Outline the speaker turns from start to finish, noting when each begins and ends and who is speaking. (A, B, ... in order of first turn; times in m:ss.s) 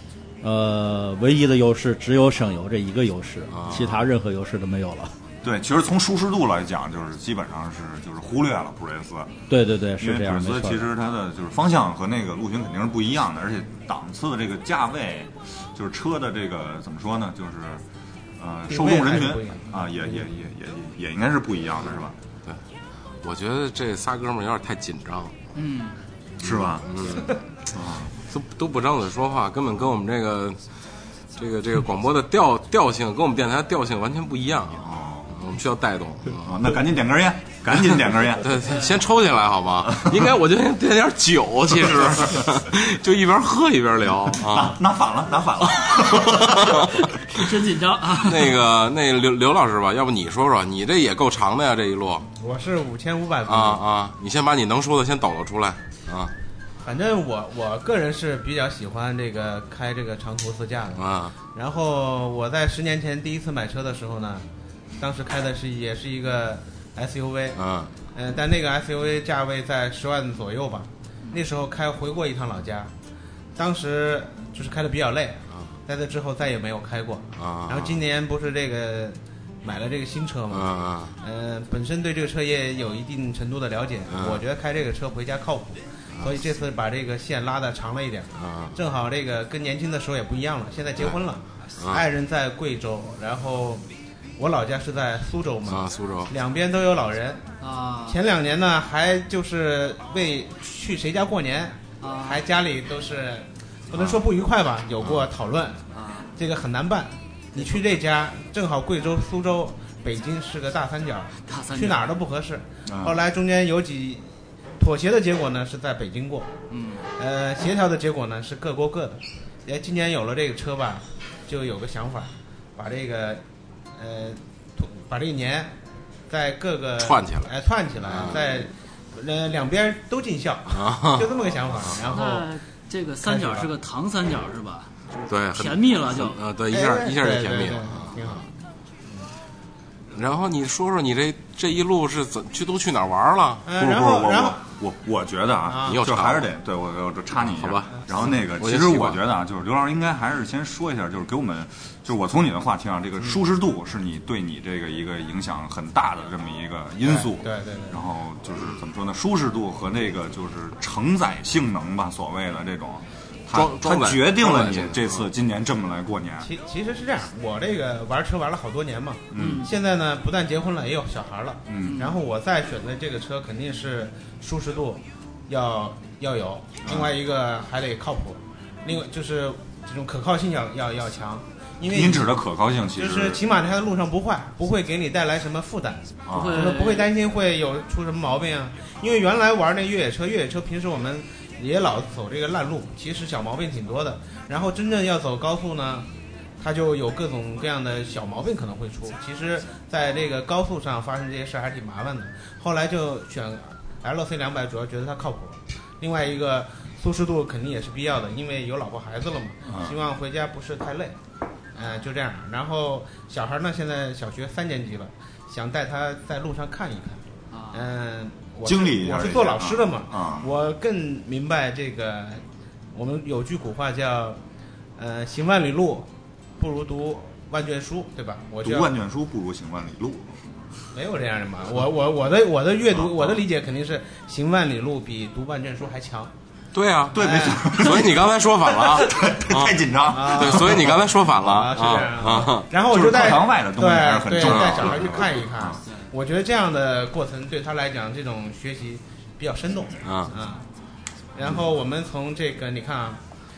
0:00.4-0:05.2 A
0:03.5-0:04.0 B
0:05.4-0:09.3 C
0:09.5-0:10.9 A
0:10.0-0:17.8 C
0:18.4-0:22.2 C
0:18.7-0:20.3 D
0:23.2-0:25.3 B
0:25.6-0:26.0 E
0:26.4-0:27.2 C
0:26.4-0:27.3 B
0:27.7-0:28.1 C
0:28.3-0:30.6 B
0:31.4-0:36.8 B
0:34.8-0:35.3 C
0:36.4-0:38.6 C
0:38.4-0:44.8 B
0:38.7-0:38.9 E
0:44.4-0:46.9 C
0:45.9-0:46.9 B
0:47.3-0:48.5 E
0:48.2-0:52.3 B
0:52.4-0:53.8 D
0:53.5-0:56.3 B
0:56.8-1:04.5 D
1:01.0-1:01.4 B
1:05.0-1:07.6 D
1:07.6-1:07.9 B
1:08.1-1:12.9 D
1:13.6-1:33.8 D
1:17.4-1:18.0 B
1:20.5-1:21.2 B
1:24.1-1:24.4 B
1:28.4-1:28.8 B
1:31.8-1:32.1 B
1:34.4-1:37.4 D
1:35.7-1:36.3 B
1:37.6-1:38.2 E
1:38.1-1:45.8 D
1:42.0-1:42.4 E
1:45.0-1:45.3 B
1:45.9-1:46.3 E
1:46.4-1:54.3 D
1:51.5-1:52.0 E
1:52.9-1:53.2 C
1:54.8-1:56.5 D
1:56.7-1:57.1 E
1:57.1-2:03.4 D
2:04.0-2:05.7 D
2:06.3-2:12.5 D
2:07.0-2:08.6 B
2:10.7-2:12.0 B
2:12.0-2:16.4 E
2:13.2-2:13.7 D
2:15.3-2:18.5 B
2:16.7-2:18.5 D
2:20.1-2:23.7 B
2:23.6-2:24.6 D
2:23.8-2:46.5 C
2:25.7-2:26.0 D
2:25.8-2:26.5 B
2:27.4-2:29.2 B
2:37.0-2:38.0 D
2:43.5-2:45.3 B
2:46.4-3:02.3 D
2:49.3-2:49.7 C
2:49.4-2:49.7 E
2:51.7-2:52.0 C
2:51.8-2:52.2 E
2:56.8-2:57.2 C
3:01.9-3:03.4 C
3:03.0-3:16.1 D
3:06.3-3:06.7 C
3:06.3-3:07.1 E
3:16.6-3:31.2 D
3:29.7-3:30.0 C
3:31.7-3:42.4 D
3:37.5-3:37.9 E
3:38.6-3:40.5 C
3:42.9-3:44.4 D
3:45.0-3:48.9 D
3:48.6-3:50.4 C
3:50.9-3:56.3 D
3:52.9-3:53.4 C
3:56.7-4:02.7 B
3:57.1-4:01.0 C
3:57.2-3:57.8 D
4:00.1-4:10.6 D
4:02.4-4:05.8 C
4:04.4-4:05.0 B
4:10.0-4:10.3 B
4:11.3-4:13.2 D